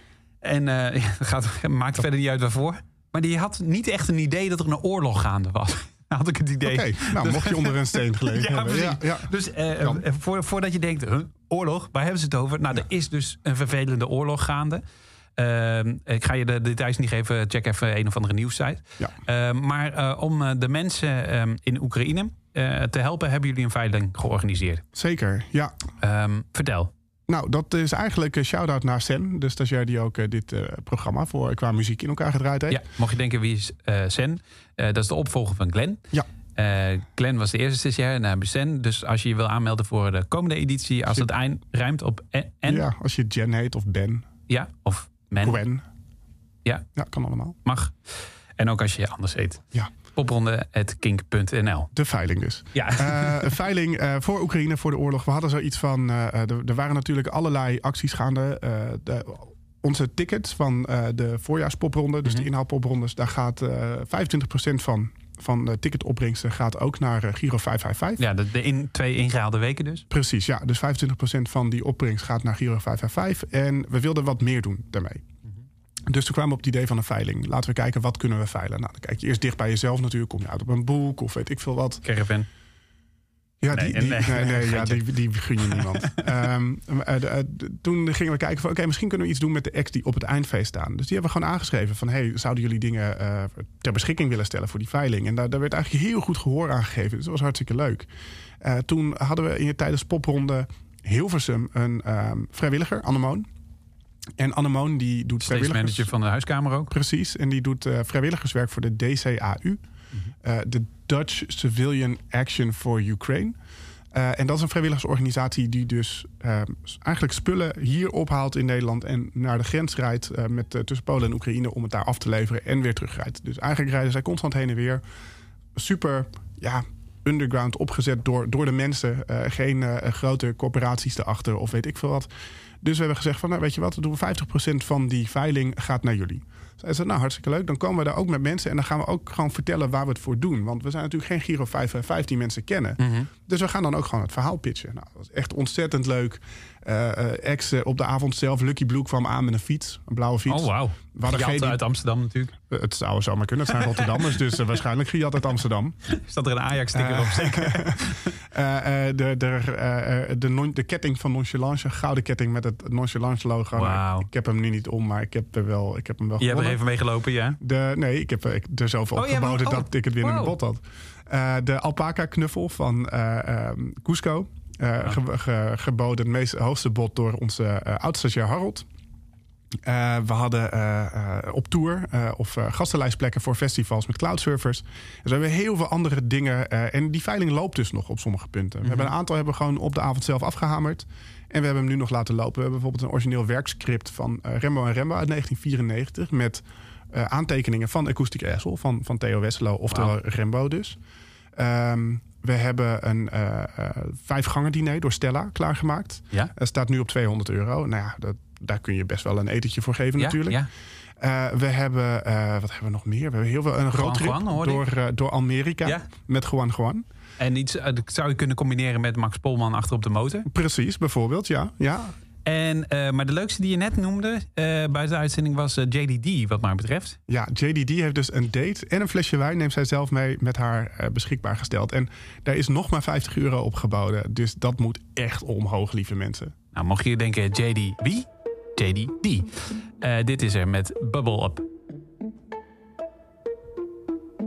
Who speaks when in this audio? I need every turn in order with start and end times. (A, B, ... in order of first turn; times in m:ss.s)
0:00.4-0:14.8 A
0:06.6-0:10.0 B
0:15.4-0:24.8 A
0:24.9-0:25.8 B
0:26.0-0:26.9 A
0:27.3-0:32.8 B
0:32.7-0:36.0 A
0:36.6-0:42.8 A
0:42.7-0:44.3 B
0:44.5-0:45.6 A
0:45.4-0:45.8 B
0:47.0-0:47.6 B
0:47.6-0:48.0 A
0:48.6-0:49.6 A
0:50.2-0:51.9 A
0:51.9-1:08.2 B
0:52.7-0:53.5 A
1:08.2-1:10.0 A
1:10.1-1:15.2 B
1:16.1-1:22.0 B
1:22.0-1:22.5 A
1:23.6-1:38.1 B
1:23.7-1:25.1 A
1:25.6-1:26.2 A
1:38.6-1:43.5 B
1:44.4-1:46.1 B
1:45.4-1:46.9 A
1:46.9-1:49.8 B
1:50.4-1:53.6 B
1:54.1-2:05.0 B
2:05.8-2:12.3 B
2:12.8-2:31.8 B
2:23.0-2:23.3 A
2:30.5-2:32.6 A
2:32.7-2:36.0 B
2:36.1-2:38.3 A
2:36.9-2:46.8 B
2:43.8-2:44.3 A
2:46.4-2:47.6 A
2:47.6-2:58.9 B
2:49.2-2:50.6 A
2:59.8-3:21.0 B
3:08.8-3:09.1 A
3:21.6-3:30.6 B
3:30.2-3:30.7 A
3:31.2-3:37.0 B
3:34.0-3:34.8 A
3:37.4-3:40.5 A
3:40.5-3:42.2 B
3:42.4-3:47.2 A
3:47.3-3:56.6 B
3:56.7-4:01.6 A